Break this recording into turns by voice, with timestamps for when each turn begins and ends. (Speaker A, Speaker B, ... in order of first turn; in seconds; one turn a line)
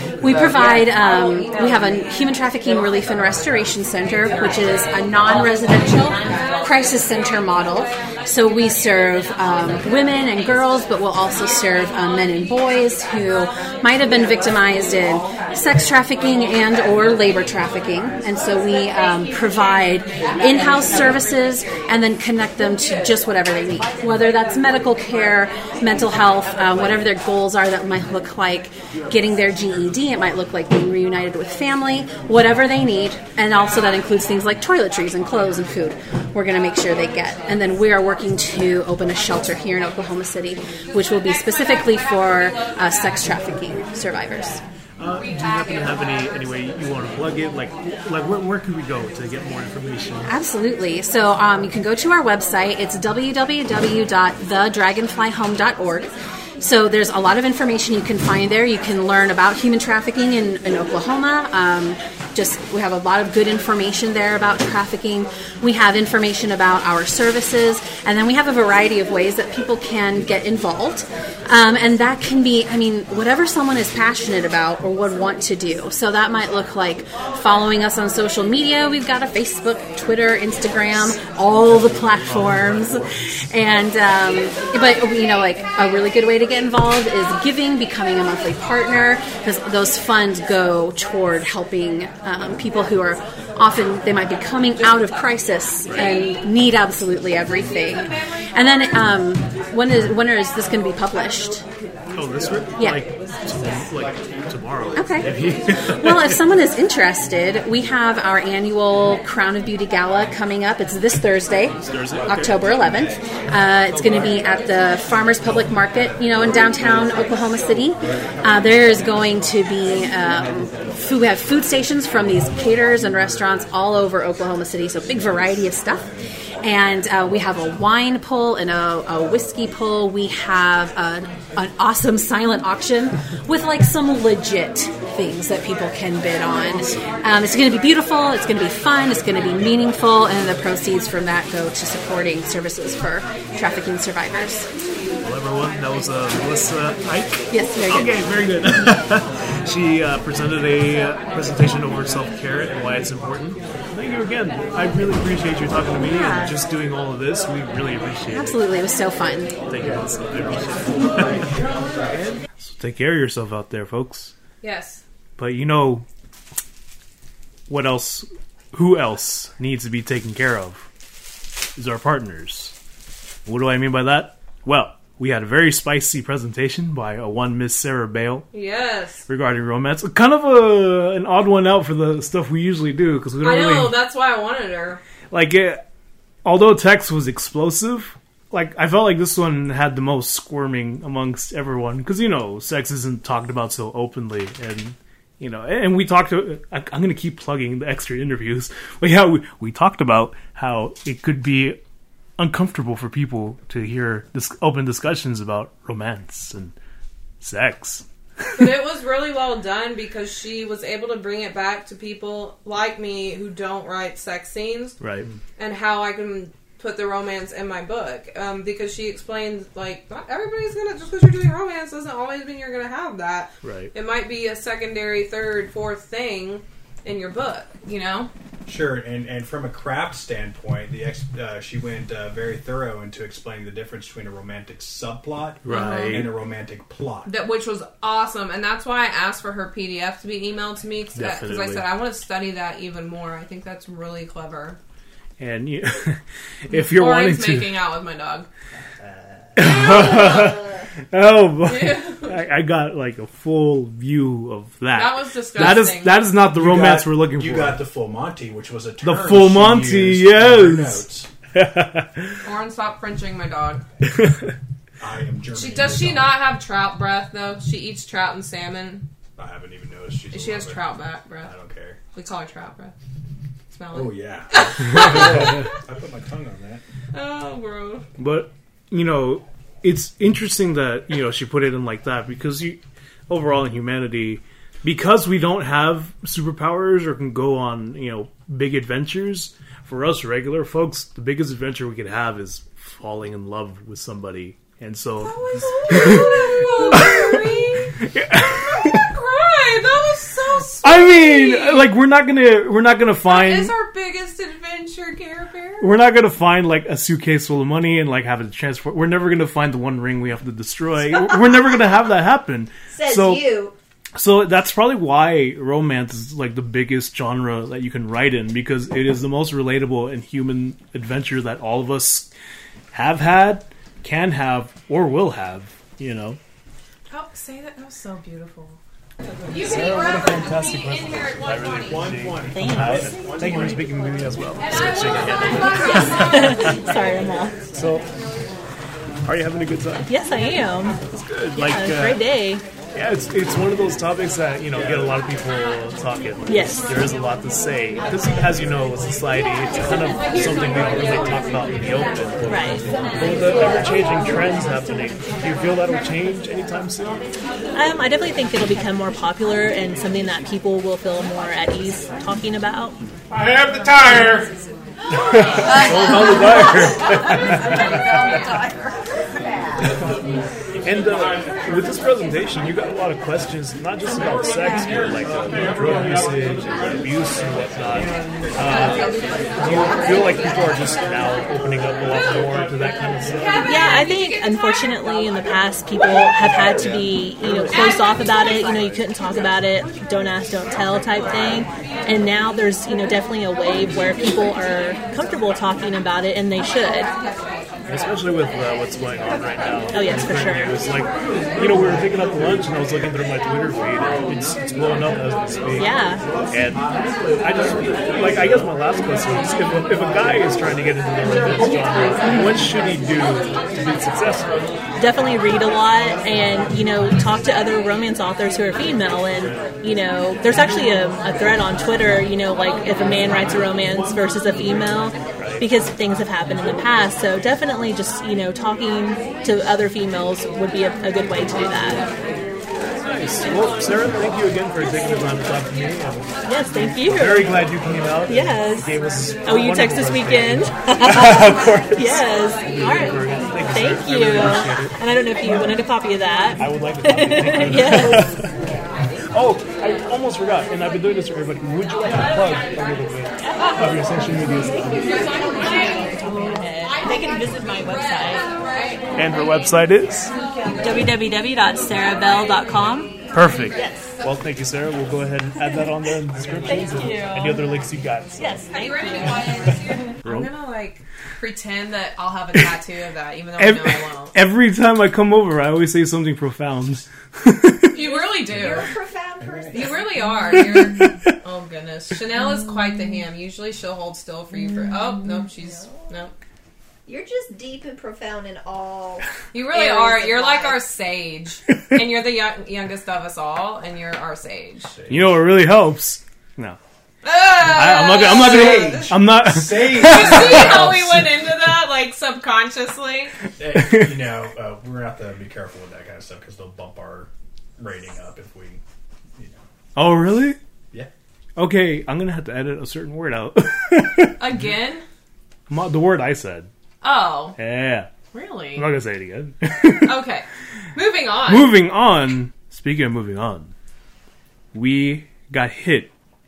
Speaker A: 0.2-44.6
Speaker B: 45.0-50.3
Speaker A: 50.2-101.6
Speaker B: 82.0-82.9
Speaker B: 95.9-96.2
Speaker B: 102.2-106.4
Speaker A: 102.8-103.1
Speaker A: 104.9-126.1
Speaker B: 111.8-113.1
Speaker A: 126.6-144.7
Speaker B: 145.2-158.6
Speaker A: 147.5-148.2
Speaker A: 156.0-156.6
Speaker A: 158.3-159.6
Speaker B: 159.7-161.5
Speaker B: 162.1-164.3
Speaker C: 164.6-165.0
Speaker B: 165.4-166.1
Speaker B: 167.7-170.9
Speaker B: 171.8-172.7
Speaker B: 173.5-178.5
Speaker C: 178.5-179.3
Speaker B: 179.3-184.0
Speaker C: 183.4-185.0
Speaker B: 185.3-185.8
Speaker B: 186.4-201.8
Speaker B: 202.4-206.8
Speaker B: 207.4-208.1
Speaker C: 208.6-215.0
Speaker B: 215.0-215.3
Speaker C: 215.6-228.3
Speaker B: 223.6-223.9
Speaker D: 228.7-237.3
Speaker B: 235.6-236.3
Speaker C: 235.7-236.3
Speaker C: 237.3-244.8
Speaker B: 241.2-241.9
Speaker B: 245.4-247.7
Speaker C: 246.7-248.5
Speaker D: 249.0-249.5
Speaker B: 249.6-257.8
Speaker E: 249.8-250.8
Speaker C: 251.6-252.4
Speaker C: 254.9-256.3
Speaker D: 256.5-261.3
Speaker B: 259.0-262.4
Speaker C: 262.4-263.8
Speaker B: 264.1-264.5
Speaker D: 265.0-266.4
Speaker C: 265.5-269.1
Speaker D: 269.4-270.9
Speaker C: 270.3-271.5
Speaker D: 271.4-272.0
Speaker C: 272.1-272.9
Speaker C: 273.7-275.7
Speaker D: 273.9-276.8
Speaker B: 275.1-275.5
Speaker C: 277.1-278.1
Speaker B: 278.2-296.3
Speaker C: 295.2-301.9
Speaker B: 296.9-297.4
Speaker B: 298.0-299.1
Speaker B: 300.8-303.7
Speaker C: 303.3-305.9
Speaker B: 305.8-313.5
Speaker E: 312.9-313.8
Speaker B: 314.1-322.3
Speaker B: 322.9-326.4
Speaker C: 327.1-328.8
Speaker C: 329.5-332.1
Speaker B: 329.5-336.8
Speaker D: 331.8-333.9
Speaker F: 332.5-333.1
Speaker C: 334.6-336.9
Speaker F: 335.6-337.6
Speaker B: 337.7-338.1
Speaker B: 339.2-340.1
Speaker F: 340.1-341.0
Speaker B: 341.1-342.2
Speaker F: 341.5-342.6
Speaker B: 342.9-357.2
Speaker D: 344.7-345.2
Speaker F: 346.5-346.9
Speaker F: 352.5-352.9
Speaker F: 357.7-363.0
Speaker B: 363.3-364.5
Speaker B: 365.2-368.4
Speaker E: 365.2-369.9
Speaker B: 370.8-383.7
Speaker F: 383.6-397.1
Speaker B: 397.9-406.9
Speaker F: 399.9-400.8
Speaker F: 405.8-406.2
Speaker B: 407.4-414.6
Speaker F: 412.3-412.5
Speaker F: 415.0-432.1
Speaker B: 425.4-425.7
Speaker B: 432.9-445.0
Speaker F: 436.4-437.7
Speaker F: 438.3-448.4
Speaker B: 446.6-448.5
Speaker B: 449.3-455.2
Speaker F: 453.4-453.7
Speaker F: 455.2-458.5
Speaker C: 455.3-456.1
Speaker C: 458.3-459.0
Speaker B: 459.2-460.3
Speaker F: 460.8-463.1
Speaker B: 463.3-468.6
Speaker F: 463.8-464.0
Speaker F: 466.6-467.7
Speaker F: 468.4-469.5
Speaker C: 468.7-474.4
Speaker B: 470.2-470.5
Speaker B: 473.6-478.0
Speaker C: 477.9-478.9
Speaker E: 477.9-480.1
Speaker D: 479.4-479.9
Speaker C: 479.7-486.3
Speaker B: 480.5-481.4
Speaker E: 485.6-486.1
Speaker E: 487.1-490.8
Speaker C: 489.5-494.9
Speaker D: 494.9-495.4
Speaker B: 495.1-496.8
Speaker C: 497.2-499.2
Speaker B: 497.6-501.2
Speaker D: 498.2-501.4
Speaker C: 499.8-503.4
Speaker D: 503.6-508.8
Speaker B: 503.8-504.1
Speaker D: 509.4-509.6
Speaker B: 510.0-510.6
Speaker B: 511.6-514.4
Speaker C: 514.4-515.0
Speaker B: 515.7-516.7
Speaker C: 517.0-517.6
Speaker B: 517.6-518.1
Speaker C: 518.3-518.9
Speaker B: 518.7-520.2
Speaker C: 520.0-521.8
Speaker B: 521.5-523.7
Speaker B: 524.7-526.1